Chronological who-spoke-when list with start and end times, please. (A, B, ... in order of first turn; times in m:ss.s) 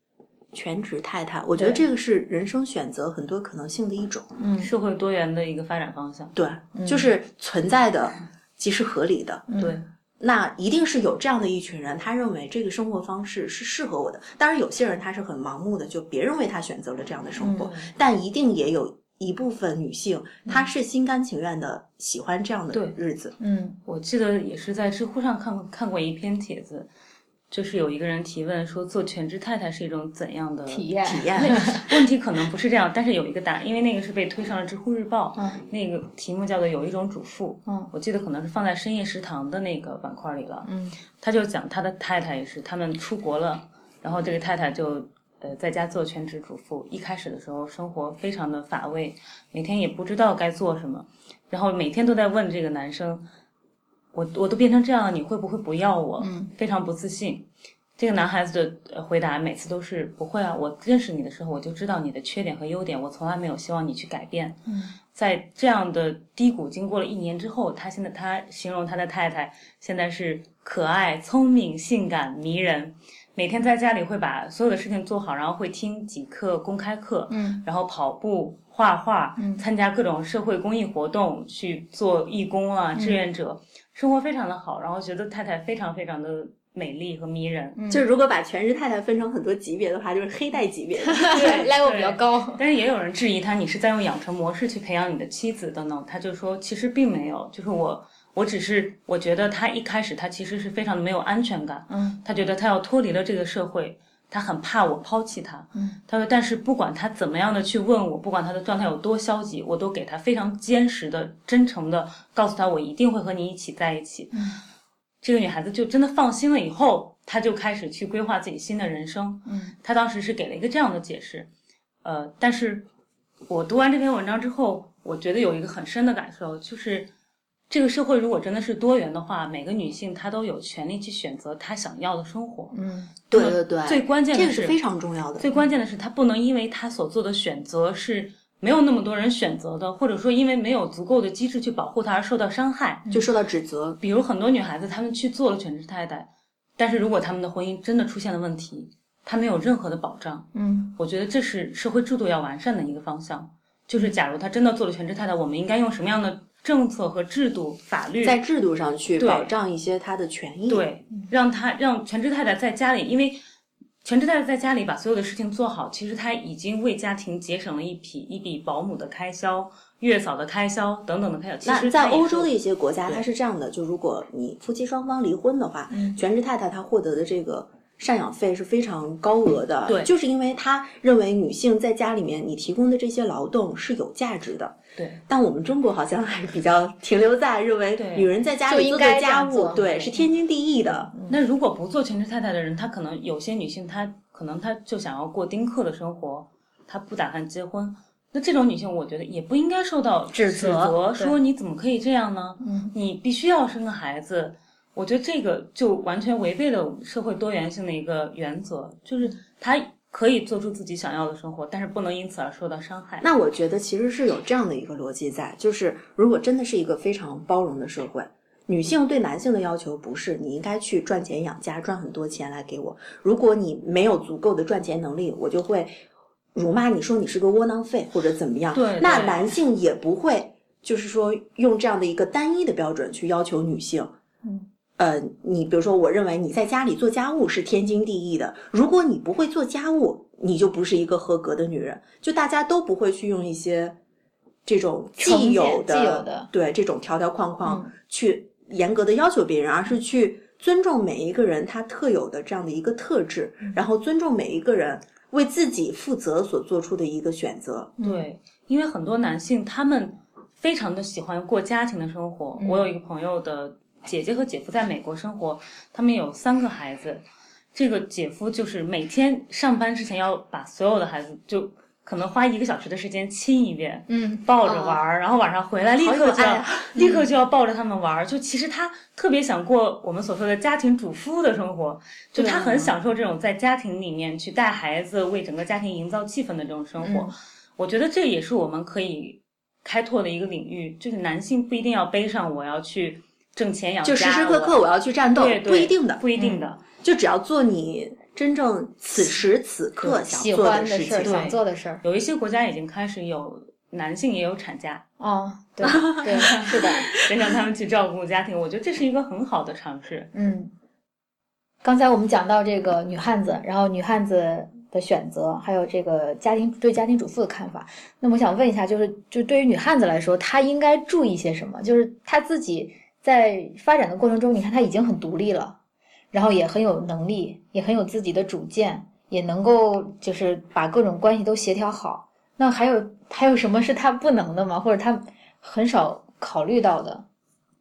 0:00.5-0:04.3 A
0:01.6-0:01.8 B
0:04.4-0:04.7 B
0:04.6-0:06.4 C
0:06.4-0:09.5 A
0:06.8-0:07.1 B
0:09.5-0:09.8 B
0:09.6-0:09.8 C
0:10.2-0:23.3 A
0:17.4-0:17.7 B
0:17.6-0:17.9 C
0:23.4-0:23.8 B
0:23.9-0:26.9 C
0:27.5-0:40.7 C
0:30.7-0:31.9 B
0:31.0-0:31.7 A
0:35.4-0:35.6 B
0:37.7-0:37.9 B
0:40.6-0:41.0 B
0:41.2-0:53.3 C
0:54.1-1:04.6 C
0:56.2-0:56.5 B
1:04.7-1:05.0 B
1:05.1-1:27.8 C
1:17.3-1:17.6 B
1:19.4-1:19.6 B
1:22.9-1:23.2 B
1:27.8-1:28.1 B
1:27.9-1:31.7 A
1:31.0-1:32.6 B
1:31.3-1:54.4 C
1:41.9-1:42.2 B
1:45.8-1:46.0 B
1:54.3-1:54.6 B
1:55.2-2:01.5 C
1:59.5-1:59.8 B
2:02.0-2:02.9 C
2:03.5-2:07.1 C
2:07.7-2:12.8 C
2:12.7-2:13.1 B
2:13.3-2:14.8 C
2:13.3-2:15.5 A
2:15.4-2:23.1 C
2:23.1-2:24.0 A
2:24.0-2:38.4 C
2:30.5-2:31.0 B
2:38.2-2:40.9 A
2:39.2-2:39.5 C
2:40.7-2:43.4 C
2:44.0-2:52.5 C
2:51.6-3:11.1 A
2:55.9-2:56.2 B
2:59.9-3:00.1 C
3:08.0-3:08.3 C
3:08.7-3:10.3 B
3:10.9-3:11.4 B
3:11.3-3:33.3 C
3:20.3-3:21.4 B
3:22.6-3:23.0 B
3:33.2-3:45.9 A
3:46.6-3:54.1 A
3:48.7-3:49.6 C
3:55.0-4:04.0 A
4:04.6-4:18.0 A
4:05.2-4:06.5 B
4:07.6-4:07.9 B
4:18.0-4:18.3 B
4:18.0-4:56.8 C
4:22.6-4:22.9 B
4:34.1-4:35.0 B
4:36.0-4:37.0 A
4:37.0-4:37.3 B
4:42.4-4:43.0 B
4:47.0-4:47.3 B
4:54.0-4:56.2 A
4:56.4-4:56.7 B
4:57.0-5:01.5 A
5:00.0-5:02.0 B
5:01.2-5:05.0 C
5:05.2-5:07.1 B
5:05.8-5:07.4 A
5:06.4-5:10.3 C
5:10.3-5:10.7 B
5:11.8-5:25.8 B
5:26.3-5:37.3 B